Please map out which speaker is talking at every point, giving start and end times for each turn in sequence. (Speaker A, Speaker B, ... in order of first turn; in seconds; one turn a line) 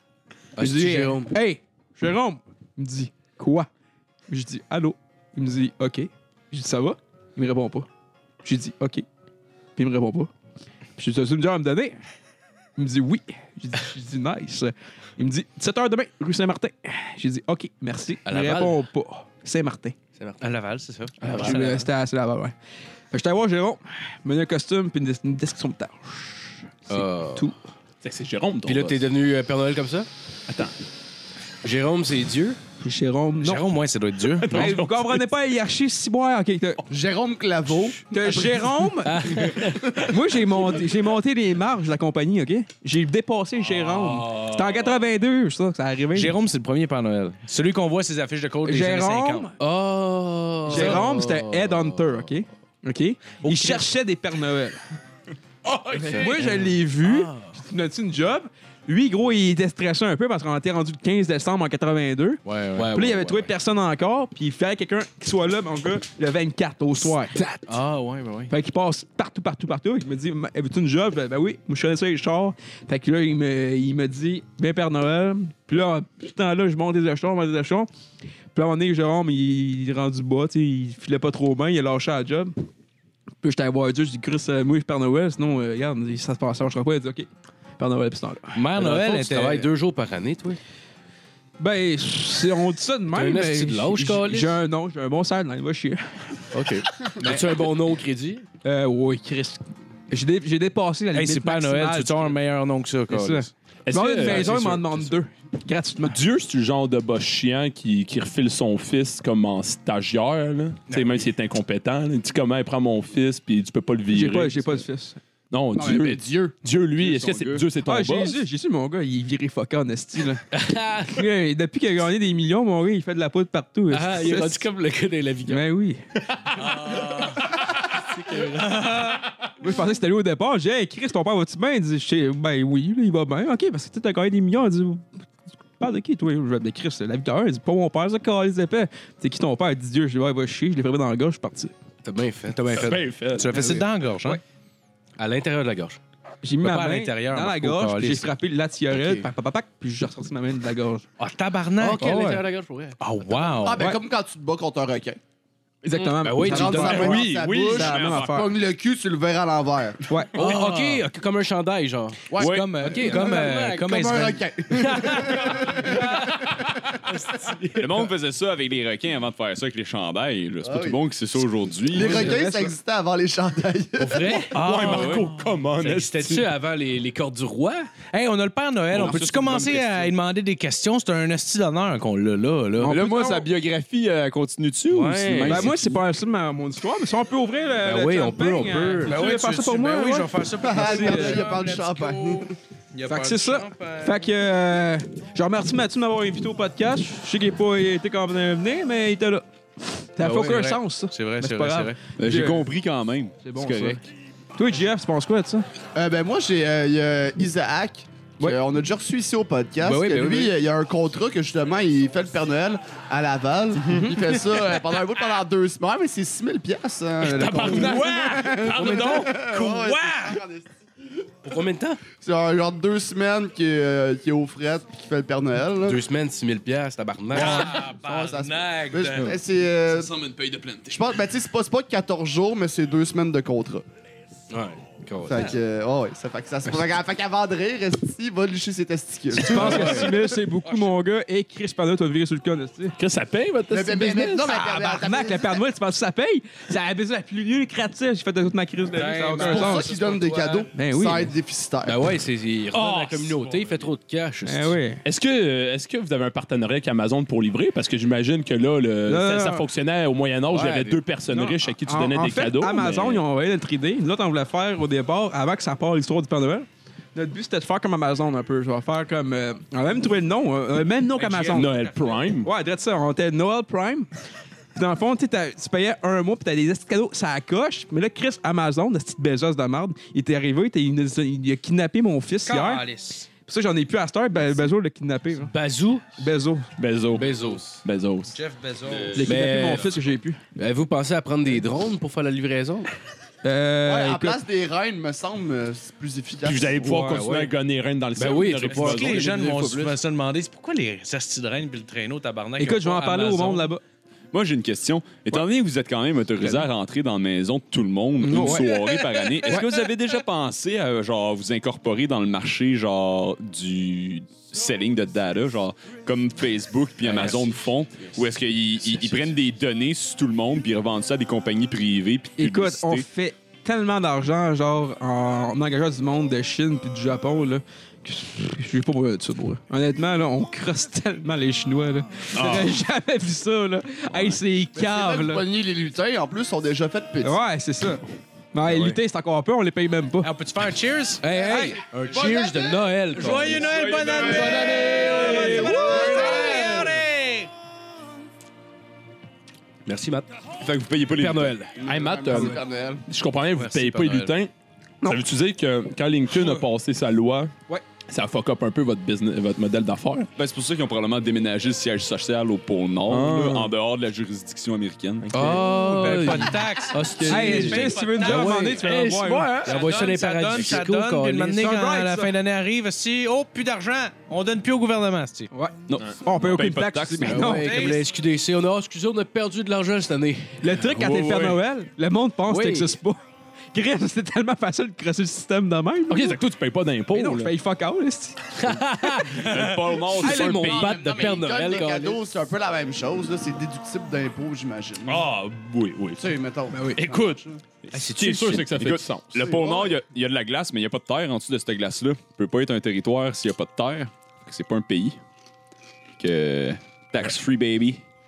Speaker A: 0.6-1.3
Speaker B: 0.6-3.7
Speaker B: 4.3-7.9
Speaker B: 8.4-9.0
Speaker B: 9.8-10.3
Speaker B: 11.0-12.0
Speaker B: 12.8-19.9
Speaker A: 18.2-18.8
Speaker A: 20.1-20.4
Speaker C: 20.4-21.9
Speaker D: 21.2-21.6
Speaker B: 21.3-22.5
Speaker B: 23.1-27.6
Speaker A: 26.9-27.5
Speaker D: 28.0-29.0
Speaker A: 28.6-30.1
Speaker D: 30.5-30.7
Speaker A: 31.6-32.6
Speaker B: 32.8-33.6
Speaker C: 33.4-34.7
Speaker D: 34.4-35.3
Speaker B: 34.5-36.8
Speaker E: 36.9-38.4
Speaker B: 38.1-39.4
Speaker A: 39.0-39.9
Speaker E: 39.9-40.1
Speaker B: 40.0-46.3
Speaker D: 43.7-44.9
Speaker C: 46.1-49.5
Speaker B: 48.6-49.5
Speaker A: 49.6-52.2
Speaker B: 50.7-54.8
Speaker C: 50.7-51.0
Speaker C: 53.4-53.9
Speaker D: 55.7-56.2
Speaker A: 55.9-56.7
Speaker B: 55.9-67.5
Speaker C: 56.1-56.5
Speaker C: 57.0-57.5
Speaker C: 62.5-62.8
Speaker A: 62.6-63.5
Speaker C: 67.7-68.5
Speaker B: 68.5-77.9
Speaker B: 78.5-82.5
Speaker B: 83.4-87.3
Speaker B: 87.8-88.6
Speaker C: 88.5-89.7
Speaker A: 88.7-90.6
Speaker B: 91.6-96.2
Speaker A: 93.1-94.6
Speaker A: 96.5-98.4
Speaker B: 98.6-102.3
Speaker C: 101.1-103.5
Speaker A: 103.1-103.5
Speaker D: 103.8-105.1
Speaker B: 103.9-106.2
Speaker A: 104.2-104.5
Speaker D: 106.0-114.8
Speaker C: 110.9-111.3
Speaker B: 114.1-115.2
Speaker D: 115.5-118.4
Speaker E: 115.7-116.5
Speaker F: 116.9-117.6
Speaker B: 117.8-120.4
Speaker A: 120.5-121.2
Speaker B: 121.1-124.6
Speaker A: 123.9-125.6
Speaker B: 125.5-126.0
Speaker C: 126.6-127.4
Speaker A: 128.1-129.1
Speaker C: 128.7-129.2
Speaker B: 129.6-135.1
Speaker B: 135.8-141.7
Speaker A: 142.0-143.8
Speaker C: 142.7-144.4
Speaker D: 142.7-143.7
Speaker A: 145.2-146.0
Speaker B: 146.4-151.0
Speaker C: 146.6-148.3
Speaker A: 148.9-149.3
Speaker C: 151.2-152.3
Speaker A: 151.8-153.0
Speaker B: 152.0-152.4
Speaker C: 153.0-153.8
Speaker E: 153.5-155.2
Speaker B: 155.8-158.5
Speaker A: 155.9-157.1
Speaker E: 156.4-160.1
Speaker D: 157.0-158.2
Speaker F: 157.1-158.4
Speaker B: 160.1-160.3
Speaker C: 160.3-161.1
Speaker A: 160.3-163.9
Speaker C: 162.3-164.4
Speaker F: 162.4-162.7
Speaker E: 163.0-167.1
Speaker A: 164.7-166.4
Speaker A: 167.1-168.0
Speaker F: 167.8-172.4
Speaker E: 170.6-171.0
Speaker E: 171.9-174.5
Speaker B: 171.9-172.7
Speaker A: 174.0-175.2
Speaker C: 174.5-175.4
Speaker D: 174.5-176.5
Speaker A: 175.8-177.9
Speaker C: 178.1-183.0
Speaker D: 179.0-179.7
Speaker F: 179.0-179.9
Speaker F: 182.8-186.0
Speaker B: 182.8-183.5
Speaker A: 184.9-185.6
Speaker B: 185.4-191.4
Speaker A: 187.8-189.2
Speaker C: 189.1-194.2
Speaker E: 190.6-192.5
Speaker B: 193.1-202.7
Speaker C: 200.2-202.0
Speaker F: 202.2-204.0
Speaker B: 203.4-204.0
Speaker B: 204.6-205.7
Speaker E: 205.9-220.7
Speaker A: 209.8-210.5
Speaker B: 213.8-214.2
Speaker D: 217.2-219.3
Speaker A: 218.7-219.3
Speaker C: 218.8-220.4
Speaker A: 221.4-222.0
Speaker E: 222.1-226.0
Speaker A: 225.8-227.8
Speaker C: 227.3-229.4
Speaker E: 227.3-230.1
Speaker F: 229.9-231.1
Speaker E: 230.9-233.8
Speaker A: 234.5-235.5
Speaker E: 235.2-240.2
Speaker B: 239.3-242.9
Speaker A: 239.5-240.1
Speaker C: 239.6-240.1
Speaker D: 243.0-244.7
Speaker E: 243.7-245.6
Speaker B: 244.5-249.9
Speaker C: 248.9-250.7
Speaker A: 249.1-250.5
Speaker E: 249.4-252.1
Speaker B: 250.7-251.3
Speaker A: 251.8-254.8
Speaker D: 252.7-253.8
Speaker B: 254.4-255.0
Speaker D: 255.0-263.2
Speaker B: 259.1-259.6
Speaker A: 260.5-261.0
Speaker B: 261.3-271.8
Speaker C: 271.2-272.2
Speaker D: 271.5-272.5
Speaker B: 272.4-274.1
Speaker B: 274.7-282.8
Speaker C: 282.4-283.3
Speaker B: 283.4-285.5
Speaker A: 285.4-286.1
Speaker B: 286.1-286.7
Speaker D: 286.8-288.3
Speaker A: 287.1-287.8
Speaker C: 288.3-289.2
Speaker B: 289.1-290.4
Speaker A: 289.2-289.9
Speaker A: 290.6-292.9
Speaker B: 293.4-294.4
Speaker E: 293.8-296.8
Speaker D: 296.4-299.4
Speaker B: 296.8-297.2
Speaker A: 297.0-297.5
Speaker A: 298.1-300.0
Speaker C: 298.7-303.7
Speaker B: 302.6-303.8
Speaker F: 304.3-323.1
Speaker B: 308.2-308.7
Speaker A: 317.1-317.4
Speaker B: 322.4-335.4
Speaker D: 332.3-332.8
Speaker E: 334.7-337.4
Speaker B: 337.2-338.0
Speaker B: 338.5-340.3
Speaker C: 340.2-341.2
Speaker A: 341.2-345.6
Speaker B: 341.3-341.8
Speaker E: 342.1-342.7
Speaker C: 343.1-347.5
Speaker D: 343.6-345.8
Speaker E: 344.1-347.0
Speaker B: 345.1-346.4
Speaker A: 349.9-350.3
Speaker F: 350.6-351.6
Speaker A: 351.1-351.8
Speaker E: 351.8-353.0
Speaker D: 351.8-354.5
Speaker C: 353.6-354.3
Speaker D: 355.1-357.5
Speaker D: 358.1-360.3
Speaker F: 360.4-365.6
Speaker D: 363.1-363.7
Speaker A: 365.3-371.6
Speaker C: 365.5-368.8
Speaker B: 367.3-369.6
Speaker C: 369.6-375.5
Speaker B: 371.6-372.3
Speaker B: 375.5-377.8
Speaker F: 375.9-377.5
Speaker A: 377.2-380.6
Speaker C: 377.5-378.1
Speaker B: 380.6-383.2
Speaker D: 380.8-381.6
Speaker A: 382.5-383.0
Speaker B: 383.7-386.4
Speaker D: 386.1-387.5
Speaker B: 387.1-389.2
Speaker A: 388.6-389.5
Speaker F: 389.3-390.9
Speaker A: 390.1-392.2
Speaker B: 390.2-390.5
Speaker E: 390.5-395.3
Speaker D: 395.1-396.3
Speaker E: 396.2-397.6
Speaker B: 396.7-397.0
Speaker D: 396.9-399.6
Speaker A: 397.9-398.8
Speaker F: 398.7-405.2
Speaker E: 399.4-400.0
Speaker F: 406.2-408.0